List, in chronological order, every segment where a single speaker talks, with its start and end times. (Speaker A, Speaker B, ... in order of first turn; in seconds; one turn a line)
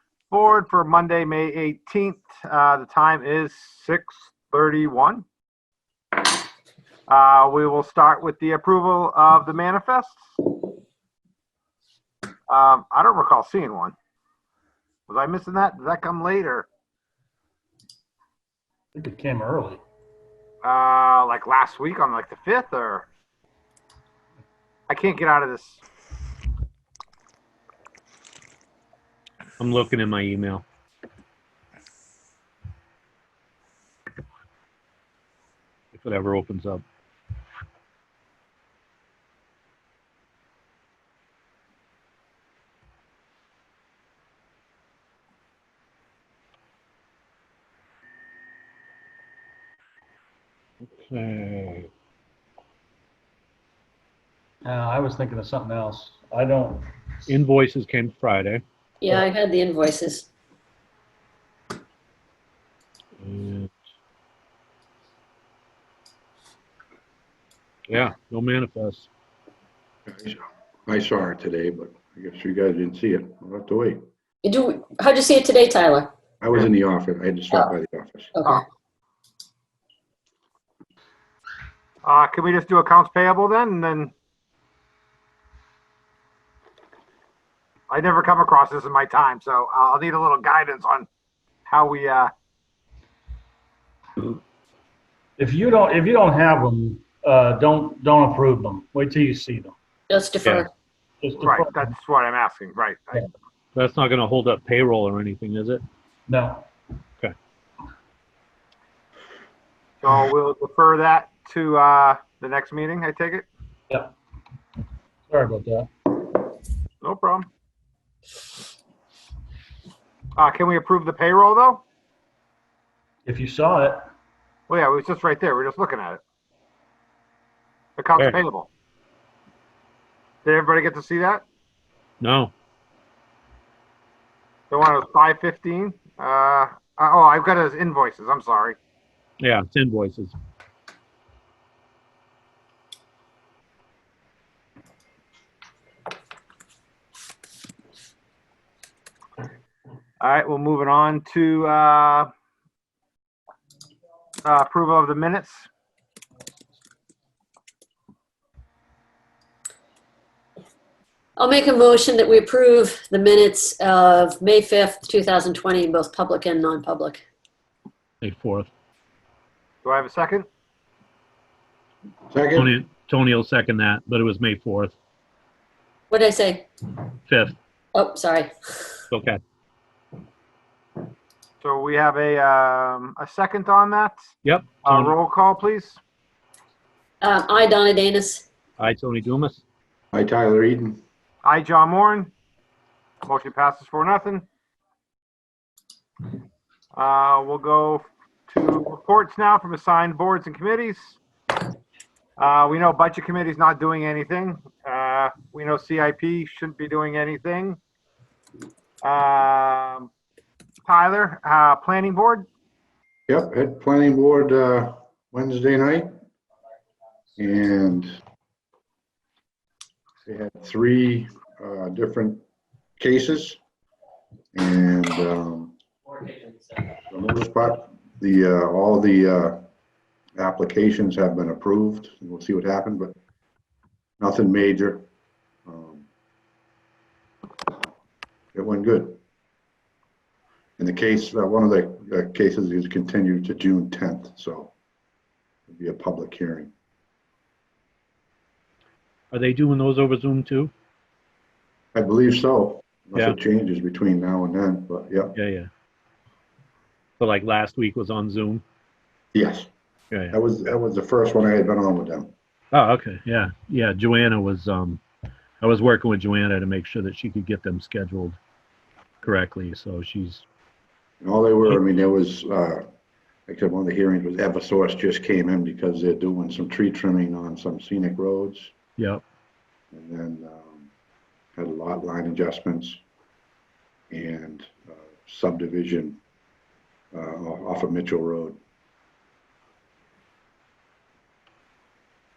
Speaker A: 0.3-5.2
Speaker A: 7.1-10.2
Speaker A: 12.5-13.9
Speaker A: 15.1-16.7
Speaker B: 18.9-19.8
Speaker A: 20.6-23.1
Speaker A: 24.9-25.8
Speaker C: 29.6-30.6
Speaker C: 35.9-36.8
Speaker C: 50.9-51.9
Speaker B: 54.6-56.9
Speaker C: 57.3-58.6
Speaker D: 59.0-60.3
Speaker C: 63.2-63.7
Speaker C: 67.9-69.1
Speaker E: 70.1-74.0
Speaker D: 74.4-76.1
Speaker E: 76.4-78.3
Speaker D: 78.3-78.6
Speaker A: 82.0-84.1
Speaker A: 87.9-91.1
Speaker A: 91.7-92.3
Speaker B: 95.4-99.8
Speaker D: 100.1-100.7
Speaker B: 101.2-101.9
Speaker A: 101.4-103.3
Speaker C: 103.8-105.8
Speaker B: 106.3-106.7
Speaker A: 110.0-113.5
Speaker B: 115.3-116.2
Speaker A: 117.0-117.5
Speaker A: 120.4-121.8
Speaker B: 123.3-124.1
Speaker A: 124.7-126.2
Speaker A: 128.0-128.7
Speaker A: 130.4-131.4
Speaker C: 132.2-132.5
Speaker A: 134.7-138.8
Speaker C: 139.4-140.3
Speaker A: 150.2-152.3
Speaker A: 154.4-155.7
Speaker D: 161.4-167.2
Speaker C: 168.2-168.7
Speaker A: 169.8-170.5
Speaker E: 172.3-172.7
Speaker C: 172.5-174.9
Speaker D: 176.1-176.7
Speaker C: 177.3-177.6
Speaker D: 177.9-178.9
Speaker C: 179.1-179.4
Speaker A: 181.6-184.2
Speaker C: 184.4-185.1
Speaker A: 184.8-186.0
Speaker D: 187.2-188.4
Speaker C: 188.8-189.6
Speaker E: 190.1-191.0
Speaker A: 191.4-192.3
Speaker A: 193.2-194.4
Speaker A: 196.9-201.2
Speaker A: 202.4-207.8
Speaker A: 209.0-210.1
Speaker A: 210.8-212.4
Speaker E: 213.3-216.1
Speaker E: 217.4-218.2
Speaker E: 220.2-222.4
Speaker E: 223.0-223.6
Speaker E: 224.5-225.7
Speaker E: 227.1-229.6
Speaker E: 230.4-233.1
Speaker E: 234.2-235.0
Speaker E: 235.7-236.1
Speaker E: 238.5-239.2
Speaker E: 240.8-244.7
Speaker E: 245.7-246.7
Speaker C: 249.3-250.7
Speaker E: 251.9-255.3
Speaker C: 255.3-255.7
Speaker C: 257.2-258.6
Speaker E: 259.3-259.7
Speaker E: 260.3-262.3
Speaker C: 262.7-265.0
Speaker C: 265.6-268.4
Speaker C: 269.2-270.4
Speaker E: 271.2-272.8
Speaker E: 273.5-278.7
Speaker C: 279.0-279.2
Speaker E: 279.9-280.9
Speaker E: 281.6-283.0
Speaker E: 284.1-286.2
Speaker E: 287.1-288.6